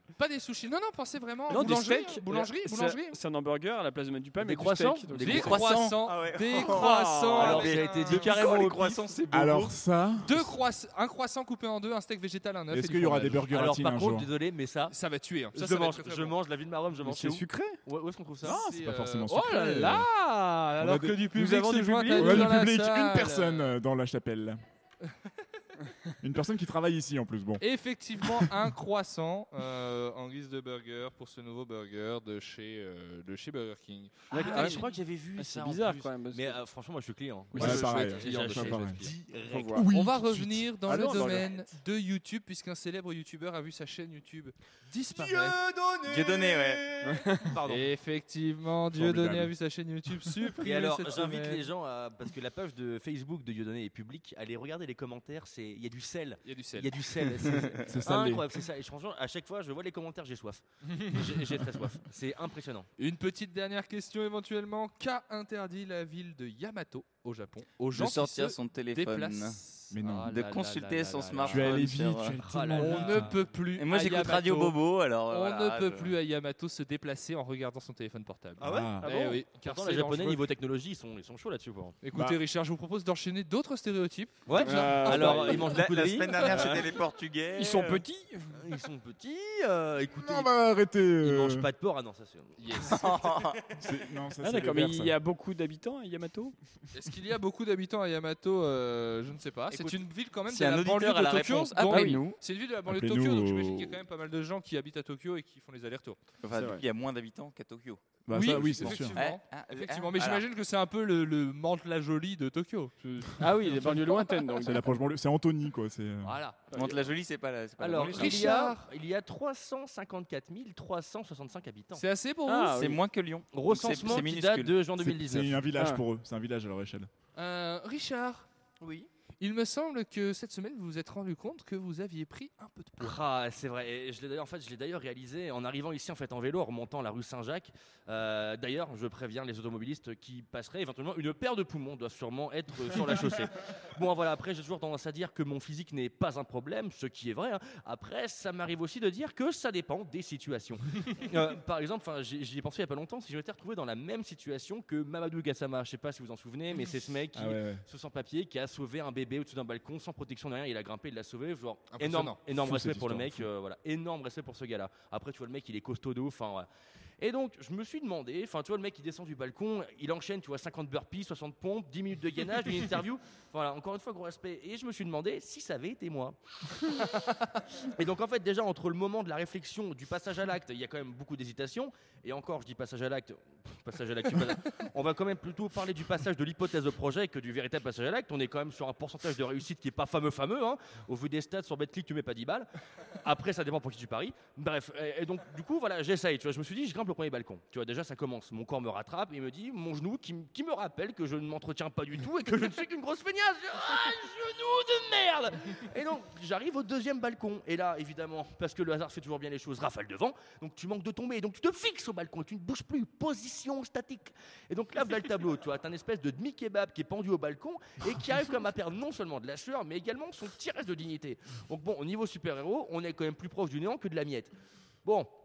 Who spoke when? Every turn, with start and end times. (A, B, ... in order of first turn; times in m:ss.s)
0:00.2-0:03.2 A
0:01.5-0:05.6 B
0:04.4-0:05.6 C
0:05.2-0:08.4 A
0:05.3-0:09.8 D
0:06.6-0:07.6 B
0:07.4-0:09.1 C
0:09.3-0:10.5 E
0:10.2-0:13.5 A
0:12.7-0:14.3 E
0:13.5-0:15.0 C
0:14.9-0:16.4 A
0:15.5-0:18.6 C
0:17.0-0:17.8 B
0:18.4-0:20.1 E
0:18.4-0:23.7 A
0:20.8-0:21.3 E
0:21.3-0:22.5 B
0:22.1-0:24.6 E
0:26.2-0:27.6 E
0:27.6-0:34.8 A
0:28.2-0:28.7 E
0:34.3-0:36.6 B
0:34.3-0:39.9 C
0:37.5-0:39.1 E
0:37.6-0:39.1 A
0:39.5-0:39.8 B
0:39.7-0:40.7 E
0:39.9-0:45.6 A
0:40.9-0:41.7 B
0:45.1-0:47.9 C
0:46.1-0:46.8 D
0:47.0-0:47.6 B
0:47.6-0:51.7 A
0:48.9-0:49.5 E
0:50.6-1:02.9 C
0:56.4-0:56.9 A
0:57.9-0:58.4 E
1:03.0-1:11.6 A
1:07.9-1:09.6 D
1:09.9-1:10.4 E
1:10.3-1:12.4 D
1:11.4-1:13.4 E
1:12.4-1:13.3 C
1:12.8-1:20.4 A
1:13.8-1:16.2 D
1:18.6-1:19.1 E
1:19.6-1:22.0 C
1:22.0-1:25.5 A
1:22.1-1:22.4 E
1:24.5-1:26.8 C
1:24.6-1:25.8 B
1:25.0-1:28.0 D
1:26.4-1:27.0 B
1:27.5-1:28.5 B
1:28.6-1:30.5 C
1:30.2-1:31.7 E
1:31.2-1:33.6 C
1:32.6-1:33.1 A
1:33.0-1:33.6 D
1:33.8-1:35.2 E
1:34.4-1:36.6 B
1:36.9-1:46.2 A
1:40.5-1:42.4 D
1:41.9-1:42.2 B
1:42.9-1:44.0 E
1:46.4-1:50.4 D
1:46.5-1:46.8 B
1:48.2-1:49.2 E
1:48.3-1:54.5 A
1:53.4-1:54.9 B
1:54.6-1:56.4 E
1:56.2-1:56.6 A
1:56.7-1:58.6 D
1:56.7-1:57.0 B
1:57.8-2:02.0 C
1:58.1-1:58.9 A
2:02.0-2:02.9 A
2:02.5-2:03.0 B
2:02.8-2:04.8 D
2:03.5-2:05.6 C
2:05.0-2:07.1 E
2:05.8-2:06.0 B
2:07.4-2:08.5 A
2:08.8-2:09.1 C
2:09.4-2:13.2 A
2:13.0-2:46.7 C
2:37.3-2:37.8 E
2:41.9-2:42.4 A
2:42.5-2:43.5 E
2:47.2-2:56.4 C
2:58.0-3:12.7 C
3:13.2-3:44.5 C
3:45.0-3:45.3 C